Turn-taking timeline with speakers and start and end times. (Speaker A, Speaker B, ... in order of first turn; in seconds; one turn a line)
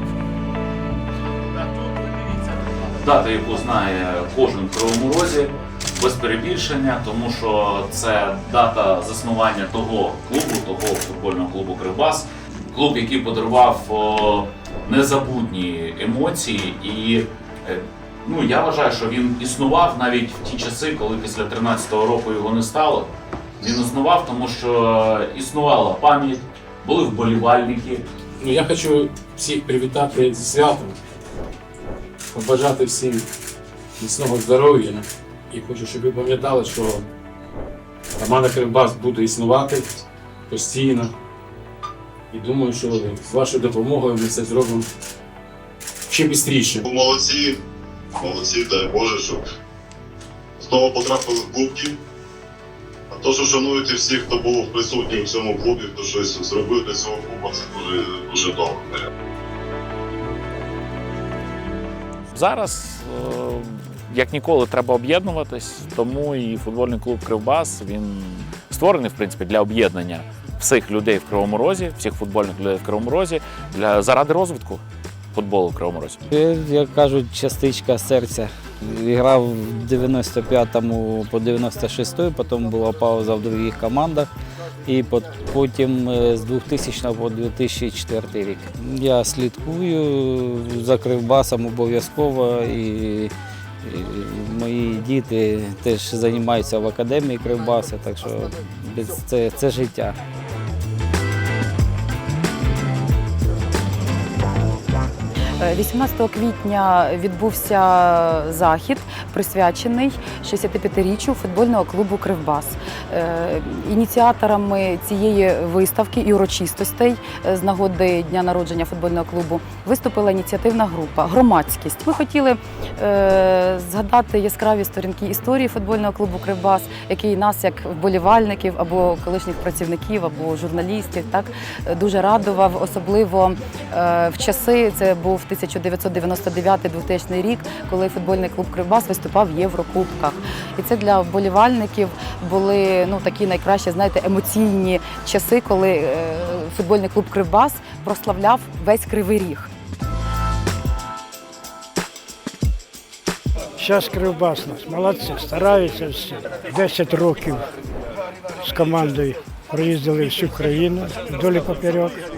Speaker A: 3.0-28.0
Speaker B: 28.4-31.0
Speaker B: 32.3-33.3
Speaker B: 34.0-37.1
Speaker B: 38.2-39.9
Speaker B: 40.5-41.1
Speaker B: 42.3-44.9
Speaker B: 46.1-46.8
Speaker C: 46.9-47.6
Speaker C: 48.2-49.4
Speaker C: 50.6-52.0
Speaker C: 53.1-59.0
Speaker A: 62.3-74.8
Speaker A: 75.3-76.2
Speaker D: 76.3-84.3
Speaker D: 84.8-93.3
Speaker D: 93.8-100.2
Speaker E: 105.6-149.7
Speaker F: 153.8-157.7
Speaker F: 158.6-162.2